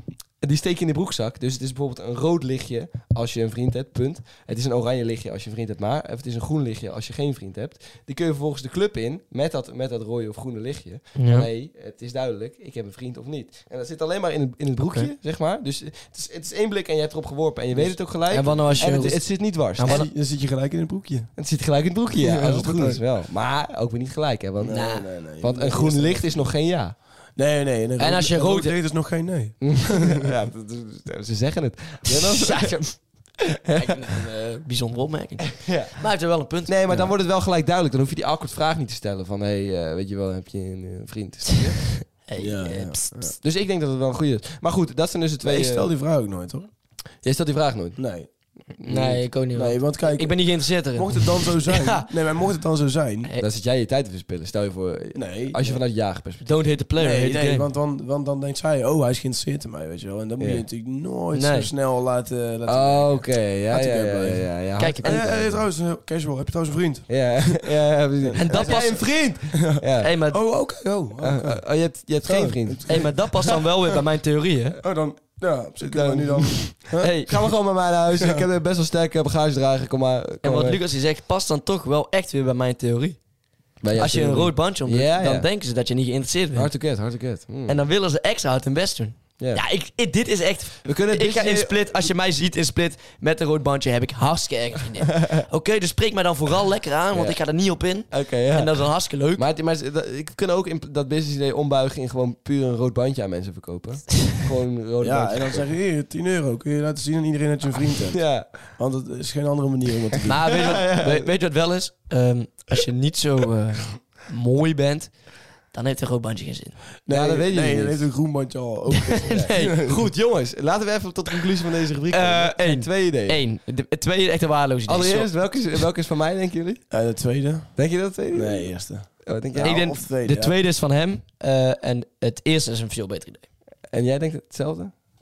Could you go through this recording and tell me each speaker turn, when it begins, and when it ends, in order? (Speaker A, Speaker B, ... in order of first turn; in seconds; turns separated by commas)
Speaker A: 0.4-20.0, Speaker B: 11.2-11.5, Speaker C: 17.7-19.2, Speaker B: 18.3-20.1, Speaker C: 19.8-21.3, Speaker A: 21.4-26.9, Speaker C: 22.2-23.0, Speaker C: 24.6-26.5, Speaker B: 24.7-25.1, Speaker C: 27.4-30.3, Speaker B: 28.0-28.7, Speaker A: 29.6-32.8, Speaker B: 32.1-33.2, Speaker A: 33.7-34.0, Speaker B: 33.7-36.7, Speaker A: 35.6-36.0, Speaker A: 36.6-41.9, Speaker B: 41.5-43.3, Speaker C: 42.4-43.3, Speaker A: 43.4-45.9, Speaker C: 45.4-46.7, Speaker A: 47.2-48.0, Speaker C: 48.0-48.3, Speaker A: 48.8-49.2, Speaker B: 48.8-52.1, Speaker C: 49.5-53.3, Speaker A: 53.4-56.5, Speaker C: 55.1-55.8, Speaker B: 56.4-57.7, Speaker C: 57.0-64.5, Speaker A: 60.4-60.6, Speaker B: 61.3-61.7, Speaker A: 62.6-65.6, Speaker B: 64.8-65.2, Speaker C: 65.0-67.7, Speaker A: 67.1-70.1, Speaker C: 68.2-73.7, Speaker B: 68.4-69.3, Speaker B: 70.0-70.4, Speaker A: 71.2-73.1, Speaker B: 72.9-74.8, Speaker C: 74.8-77.1, Speaker A: 75.8-80.8, Speaker B: 77.0-77.4, Speaker B: 80.4-83.2, Speaker A: 83.8-85.5, Speaker B: 83.9-86.7, Speaker A: 86.5-87.8, Speaker B: 87.7-99.4, Speaker A: 90.8-92.1, Speaker A: 97.1-97.4, Speaker A: 98.1-105.7, Speaker C: 105.0-110.5, Speaker A: 108.1-108.5, Speaker B: 110.3-115.2, Speaker A: 110.4-111.3, Speaker B: 115.7-116.8, Speaker C: 117.0-120.0, Speaker A: 117.1-118.1, Speaker B: 119.0-119.9, Speaker A: 119.3-123.4, Speaker B: 122.1-125.5, Speaker A: 124.9-126.8, Speaker C: 126.9-127.8, Speaker A: 127.8-129.8, Speaker C: 128.3-130.5, Speaker B: 129.6-133.4, Speaker A: 133.9-134.9